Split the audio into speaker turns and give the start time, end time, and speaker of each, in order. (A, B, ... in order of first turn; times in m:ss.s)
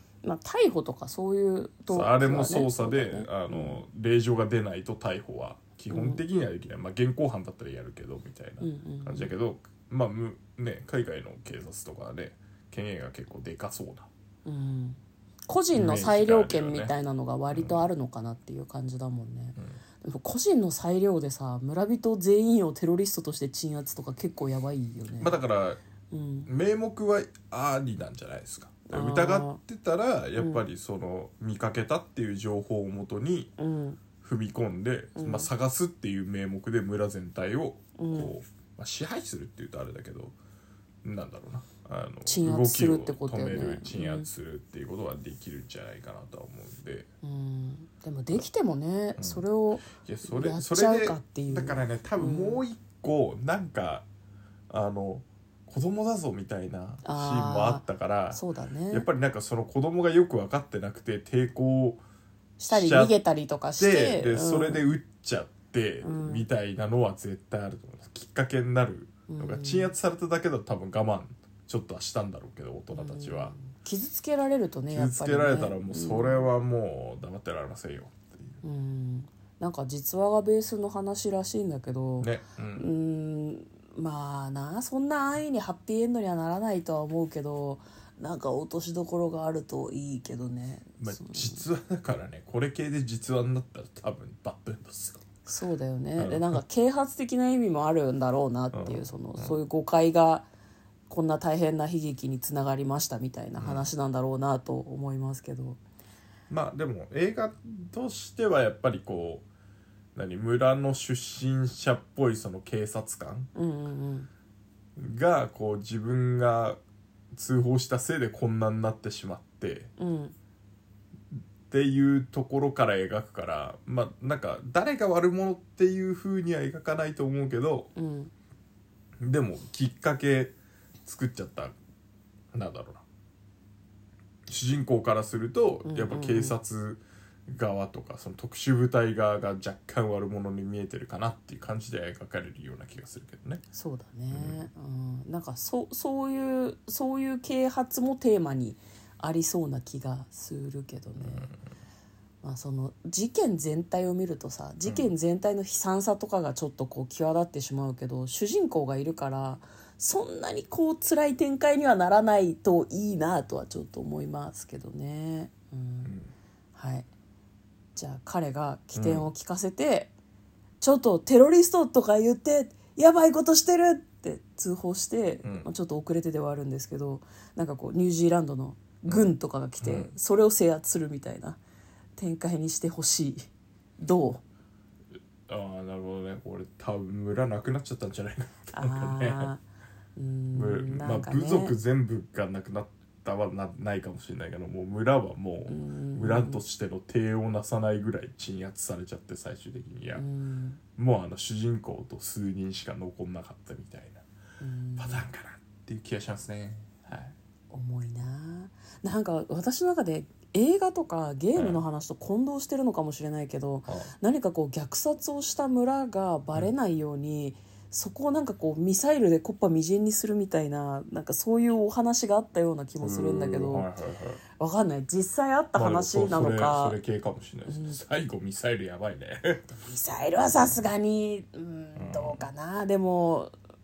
0:00.2-0:03.8 A
0:01.9-0:14.1 B
0:05.9-0:06.2 A
0:08.6-0:09.3 A
0:14.4-0:25.4 A
0:15.7-0:16.9 B
0:17.5-0:17.9 B
0:25.2-0:25.8 B
0:26.1-0:26.5 A
0:26.5-0:33.5 B
0:28.9-0:29.6 A
0:30.4-0:30.6 A
0:33.6-0:34.0 A
0:34.2-0:40.4 B
0:35.2-0:35.5 A
0:38.0-0:38.3 A
0:41.0-0:47.1 B
0:42.3-0:44.3 A
0:47.2-0:52.6 A
0:49.2-0:54.0 B
0:54.7-1:02.0 B
0:57.0-0:59.1 A
1:02.6-1:04.8 A
1:02.7-1:03.1 B
1:03.8-1:13.6 B
1:06.0-1:06.5 A
1:09.3-1:09.9 A
1:12.9-1:16.5 A
1:14.9-1:18.6 B
1:18.6-1:31.6 A
1:22.2-1:22.9 B
1:31.0-1:35.3 B
1:35.4-1:40.5 A
1:36.2-1:36.6 B
1:38.7-1:39.6 B
1:41.1-1:45.8 A
1:43.6-1:43.9 B
1:46.5-1:49.4 B
1:50.2-1:53.5 B
1:53.6-1:54.3 A
1:55.0-1:56.8 B
1:57.3-1:59.9 B
2:00.0-2:00.4 A
2:01.3-2:07.9 B
2:08.0-2:08.3 A
2:09.2-2:11.7 B
2:12.5-2:13.0 B
2:14.5-2:23.6 B
2:15.8-2:16.6 A
2:23.7-2:31.5 A
2:24.3-2:24.6 B
2:31.2-2:31.6 B
2:32.4-2:46.1 A
2:34.8-2:35.1 B
2:46.0-2:46.3 B
2:46.8-2:47.1 A
2:48.0-2:50.1 A
2:49.0-2:49.3 B
2:50.8-3:01.6 A
2:59.1-3:00.1 B
3:02.2-3:03.5 A
3:04.0-3:04.4 A
3:05.5-3:09.5 B
3:08.7-3:09.6 A
3:10.2-3:11.8 A
3:10.5-3:20.2 B
3:15.7-3:16.6 A
3:20.2-3:20.8 A
3:21.0-3:24.2 B
3:24.6-3:25.3 A
3:25.0-3:27.3 B
3:27.7-3:43.9 A
3:31.6-3:31.8 B
3:33.9-3:34.1 B
3:43.0-3:44.4 B
3:44.6-3:47.0 A
3:45.8-3:49.7 B
3:47.7-3:48.0 A
3:49.7-3:53.5 A
3:52.0-3:52.4 B